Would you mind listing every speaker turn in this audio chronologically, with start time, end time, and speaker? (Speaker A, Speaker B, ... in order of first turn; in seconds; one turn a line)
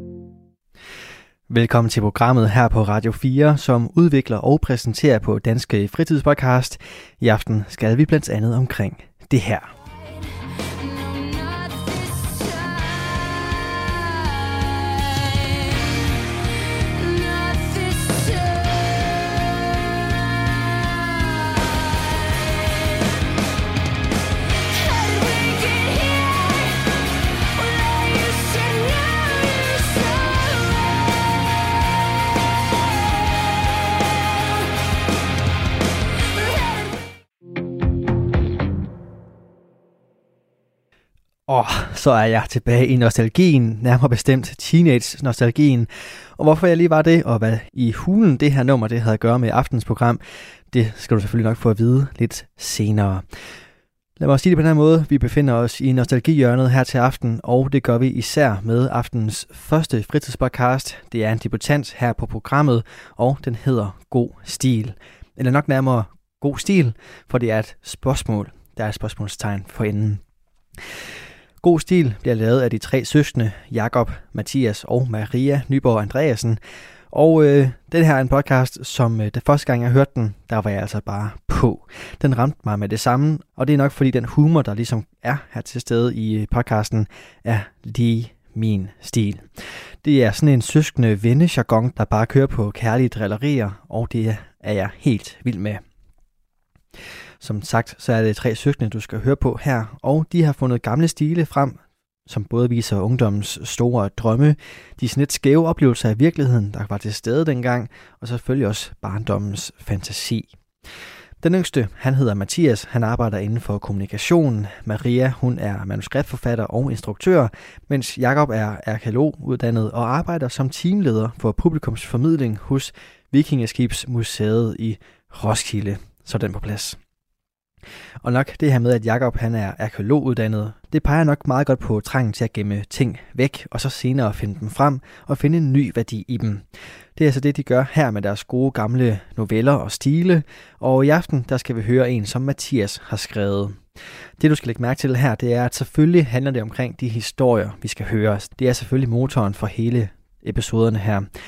Speaker A: 1.5-9.7
Speaker A: 41.5-50.2
Speaker A: 50.7-53.2
Speaker A: 54.2-70.2
Speaker A: 71.6-76.6
Speaker A: 77.1-89.5
Speaker A: 90.0-95.8
Speaker A: 97.4-101.8
Speaker A: 102.3-110.5
Speaker A: 111.4-127.0
Speaker A: 128.2-136.6
Speaker A: 137.2-143.8
Speaker A: 144.4-151.3